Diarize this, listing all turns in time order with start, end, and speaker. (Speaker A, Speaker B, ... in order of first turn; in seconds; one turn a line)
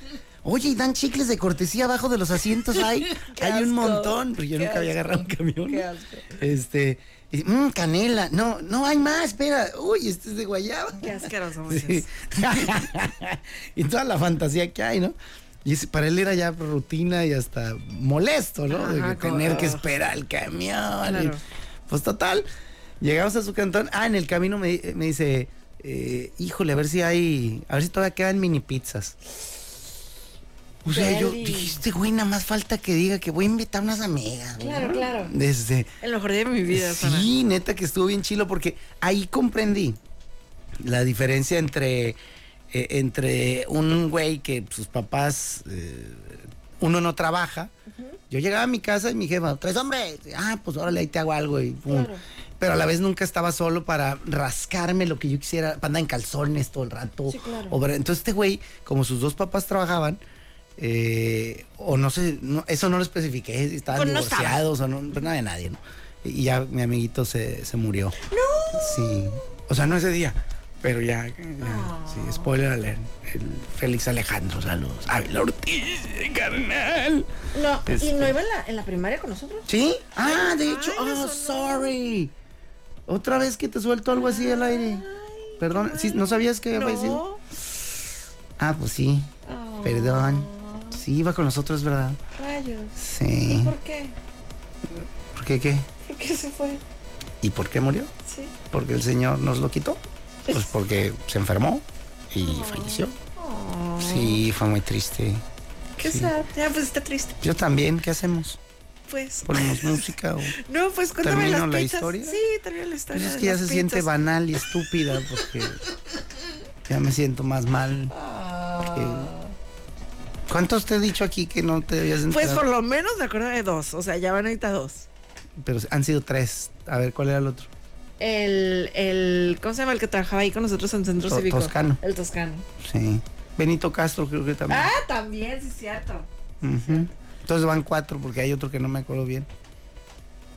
Speaker A: 0.4-21.4
Speaker B: 2.7-6.4
Speaker B: 11.0-12.1
Speaker B: 18.7-19.9
Speaker B: 21.1-21.4
Speaker A: 21.9-22.5
Speaker A: 23.0-29.2
Speaker A: 30.8-35.9
Speaker B: 30.9-31.8
Speaker B: 34.6-35.3
Speaker B: 36.0-37.3
Speaker A: 36.7-40.0
Speaker A: 40.8-42.2
Speaker A: 42.7-47.7
Speaker B: 47.9-48.2
Speaker A: 48.3-60.2
Speaker B: 51.9-52.2
Speaker B: 57.3-57.8
Speaker A: 60.8-68.2
Speaker B: 63.9-64.7
Speaker B: 68.2-69.5
Speaker A: 68.7-77.3
Speaker B: 71.6-72.5
Speaker B: 77.5-79.7
Speaker A: 77.9-78.3
Speaker A: 79.7-82.3
Speaker B: 80.2-81.9
Speaker A: 83.1-85.0
Speaker B: 84.1-87.4
Speaker A: 85.6-87.2
Speaker A: 88.6-89.3
Speaker B: 89.5-91.0
Speaker A: 89.8-92.2
Speaker B: 92.4-94.2
Speaker A: 93.0-93.8
Speaker A: 95.3-95.9
Speaker B: 96.0-96.8
Speaker A: 97.4-98.1
Speaker B: 98.2-98.5
Speaker A: 98.7-103.2
Speaker B: 102.4-104.4
Speaker A: 104.0-105.4
Speaker B: 106.0-107.4
Speaker A: 106.0-106.3
Speaker A: 107.4-108.6
Speaker B: 109.1-114.1
Speaker A: 109.5-110.6
Speaker A: 111.2-112.4
Speaker A: 113.1-115.8
Speaker A: 116.9-118.1
Speaker B: 118.1-119.5
Speaker A: 118.9-119.3
Speaker A: 120.5-122.6
Speaker B: 122.3-125.1
Speaker A: 125.6-127.7
Speaker B: 128.2-132.7
Speaker A: 131.2-132.0
Speaker A: 132.8-134.9
Speaker B: 134.7-136.3
Speaker A: 136.6-139.5